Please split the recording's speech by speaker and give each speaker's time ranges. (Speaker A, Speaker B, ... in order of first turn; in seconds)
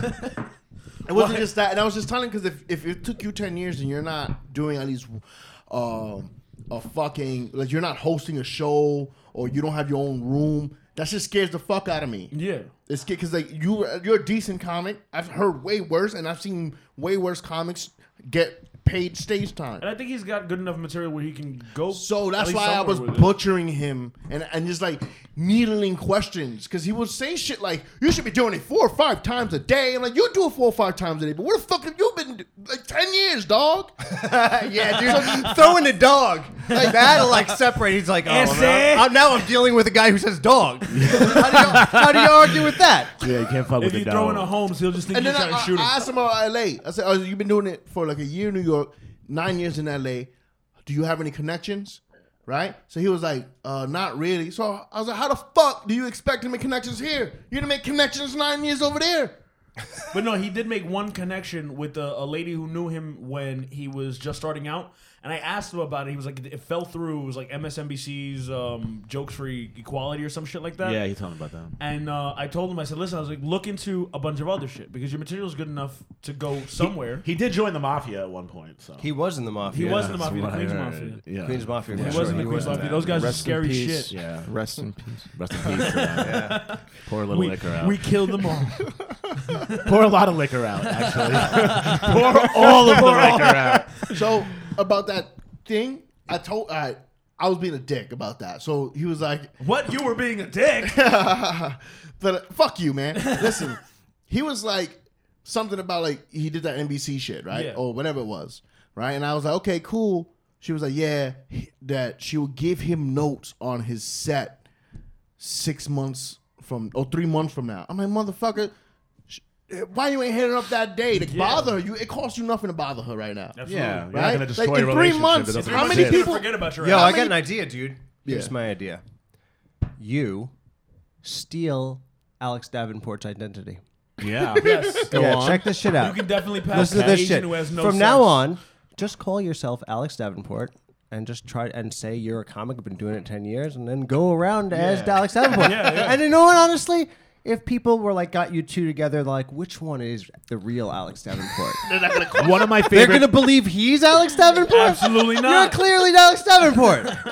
Speaker A: 1.1-12.3, 12.9-19.8, 21.9-34.0, 35.0-35.7, 36.7-37.4, 45.1-50.3, 50.8-59.3, 92.1-99.5, 100.8-114.6, 115.4-118.7, 119.3-127.3, 128.2-128.5, 151.8-152.7
Speaker B: 1.1-1.5, 12.3-12.7, 19.8-23.3, 38.2-39.2, 43.8-45.9, 60.1-71.0, 71.8-77.2, 79.7-81.2, 81.9-84.1, 85.7-89.9, 90.9-94.1, 99.6-101.0, 103.2-103.7, 107.5-107.8, 121.1-121.8, 123.5-124.1, 125.5-127.3, 134.6-135.1, 135.8-138.4, 145.0-146.2, 154.7-155.8
Speaker C: 34.0-43.1, 79.0-80.2, 81.4-83.1, 86.2-86.6, 126.8-129.0, 130.0-130.5, 131.2-133.8, 135.1-151.8, 152.8-157.2
Speaker D: 40.9-44.5, 70.8-71.8, 76.8-79.0, 79.7-83.5, 84.1-84.5, 85.3-88.0, 89.8-94.1, 123.7-126.3, 134.2-134.8, 152.3-153.4
Speaker E: 83.0-85.8, 135.1-135.8